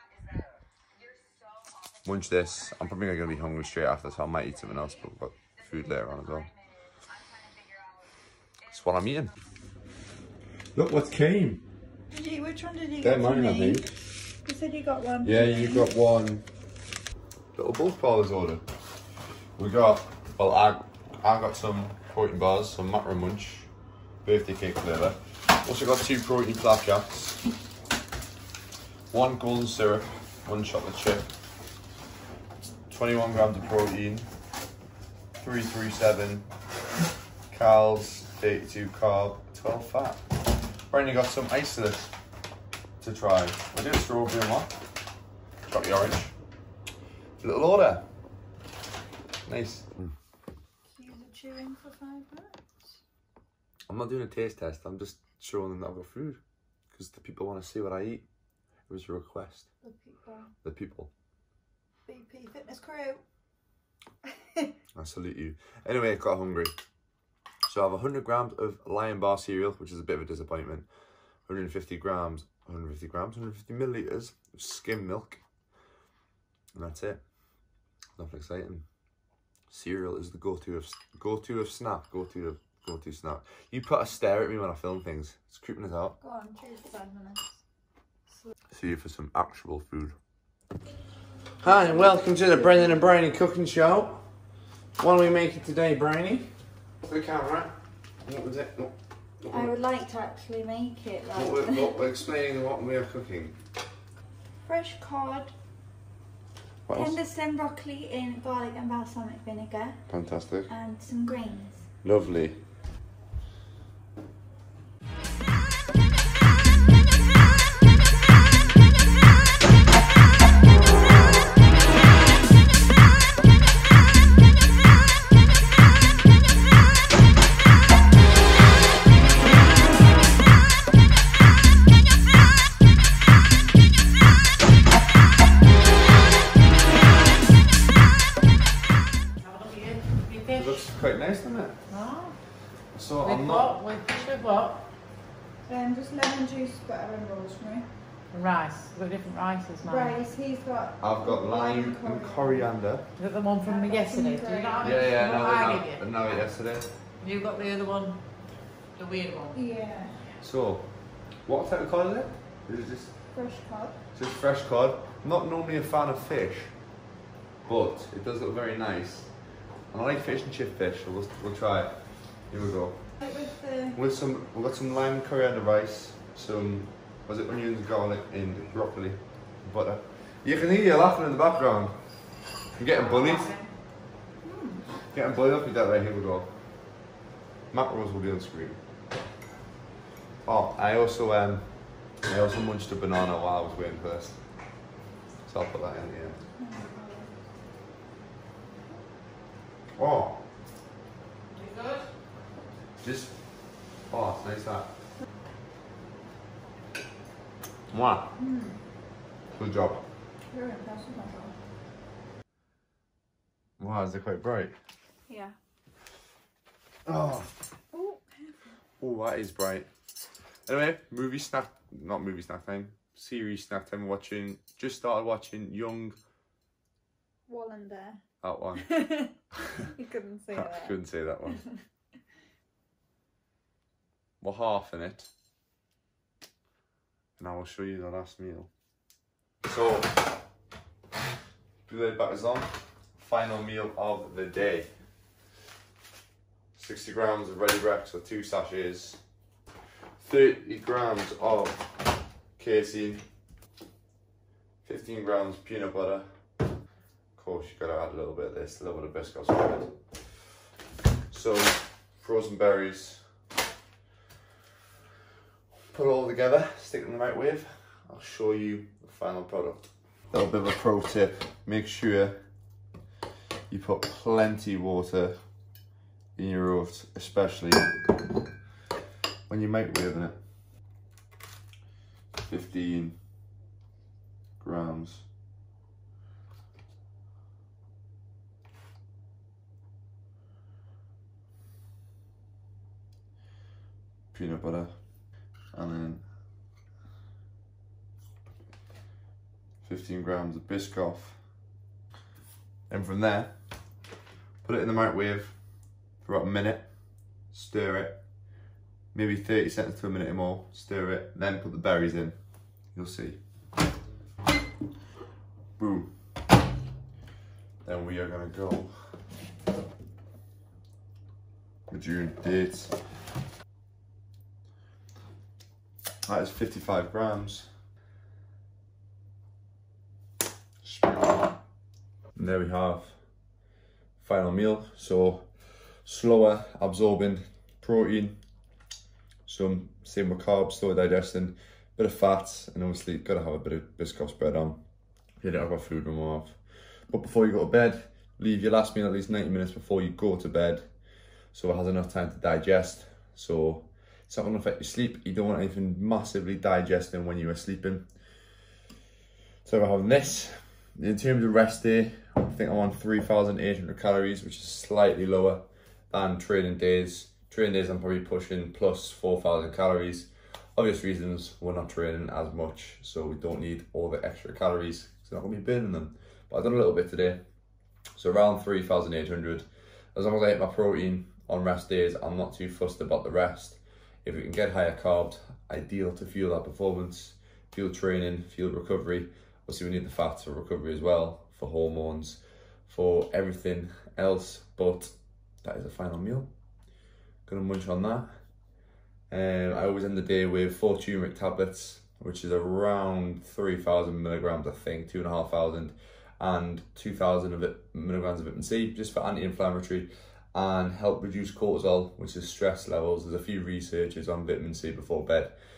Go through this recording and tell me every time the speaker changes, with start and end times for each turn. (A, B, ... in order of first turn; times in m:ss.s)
0:02.0-0:06.5 A
0:08.7-0:09.3 A
0:10.7-0:11.6 A
0:12.1-0:13.8 B
0:13.0-0:13.9 A
0:14.4-0:15.9 B
0:15.2-0:16.5 A
0:17.5-0:18.6 A
0:19.6-0:23.7 A
0:24.2-0:27.4 A
0:29.1-0:31.2 A
0:32.9-0:34.2 A
0:35.4-0:36.5 A
0:37.5-0:40.2 A
0:40.9-0:42.1 A
0:43.0-0:44.7 A
0:45.7-0:46.3 A
0:47.4-0:48.0 A
0:49.4-0:50.1 A
0:50.9-0:52.7 B
0:53.9-0:56.4 A
0:56.9-0:58.2 A
0:58.9-0:59.7 A
0:59.8-1:00.5 B
1:00.6-1:01.1 A
1:02.1-1:03.2 B
1:04.9-1:06.7 A
1:07.6-1:10.9 A
1:11.4-1:15.4 A
1:16.7-1:17.2 A
1:18.2-1:18.8 A
1:19.7-1:26.2 A
1:26.2-1:27.4 B
1:28.7-1:30.2 A
1:31.6-1:34.3 A
1:35.0-1:39.7 A
1:39.4-1:42.0 B
1:41.3-1:43.6 A
1:44.6-1:45.5 B
1:46.9-1:47.2 A
1:46.9-1:50.0 B
1:50.1-1:50.7 A
1:50.7-1:51.8 B
1:52.0-1:52.6 A
2:19.4-2:20.6 C
2:20.5-2:21.8 A
2:21.9-2:22.4 C
2:22.9-2:23.8 A
2:23.2-2:24.8 C
2:25.6-2:27.9 B
2:28.3-2:30.1 C
2:29.8-2:32.7 B
2:31.0-2:33.1 A
2:33.2-2:36.0 C
2:33.6-2:34.9 B
2:34.8-2:36.9 A
2:37.2-2:38.2 C
2:39.0-2:39.5 C
2:39.5-2:40.3 B
2:40.4-2:43.3 A
2:43.3-2:44.0 B
2:44.1-2:46.8 A
2:47.6-2:49.3 A
2:49.9-2:53.1 A
2:53.2-2:54.0 B
2:53.9-3:02.1 A
3:02.7-3:03.6 A
3:04.4-3:04.8 B
3:05.1-3:06.5 A
3:07.7-3:08.8 A
3:10.4-3:14.4 A
3:15.4-3:16.4 A
3:16.6-3:17.4 B
3:20.0-3:20.4 A
3:21.6-3:22.0 C
3:23.0-3:23.4 A
3:24.1-3:24.9 A
3:27.9-3:28.3 A
3:28.4-3:28.8 B
3:29.5-3:30.0 A
3:30.5-3:31.6 B
3:33.8-3:34.7 A
3:35.3-3:35.6 B
3:37.0-3:37.5 A
3:37.9-3:38.8 B
3:39.0-3:39.9 A
3:40.7-3:46.2 A
3:47.5-3:48.2 B
3:48.4-3:49.0 A
3:48.8-3:49.3 B
3:49.9-3:50.9 B
3:50.5-3:51.6 A
3:54.4-3:55.3 A
3:57.4-3:58.7 A
3:59.6-4:00.3 A
4:01.8-4:04.9 A
4:06.7-4:09.2 A
4:10.2-4:13.2 A
4:14.8-4:16.4 A
4:17.4-4:20.4 A
4:21.3-4:23.3 A
4:25.9-4:32.4 A
4:33.7-4:35.4 A
4:36.4-4:38.1 A
4:39.5-4:40.4 A
4:42.4-4:43.2 A
4:44.6-4:45.3 A
4:54.3-4:56.3 A
4:59.8-5:01.5 A
5:02.9-5:03.6 A
5:04.6-5:08.5 A
5:09.1-5:13.4 A
5:15.8-5:16.1 A
5:17.8-5:19.2 A
5:21.9-5:23.0 A
5:26.2-5:27.7 A
5:30.8-5:31.6 A
5:32.3-5:33.2 A
5:34.2-5:35.5 A
5:36.0-5:38.4 A
5:39.4-5:44.8 A
5:45.4-5:46.6 A
5:47.1-5:50.9 A
5:51.5-5:58.0 A
5:59.6-6:17.4 A
6:18.2-6:36.5 A
6:37.4-6:38.4 A
6:39.3-6:55.6 A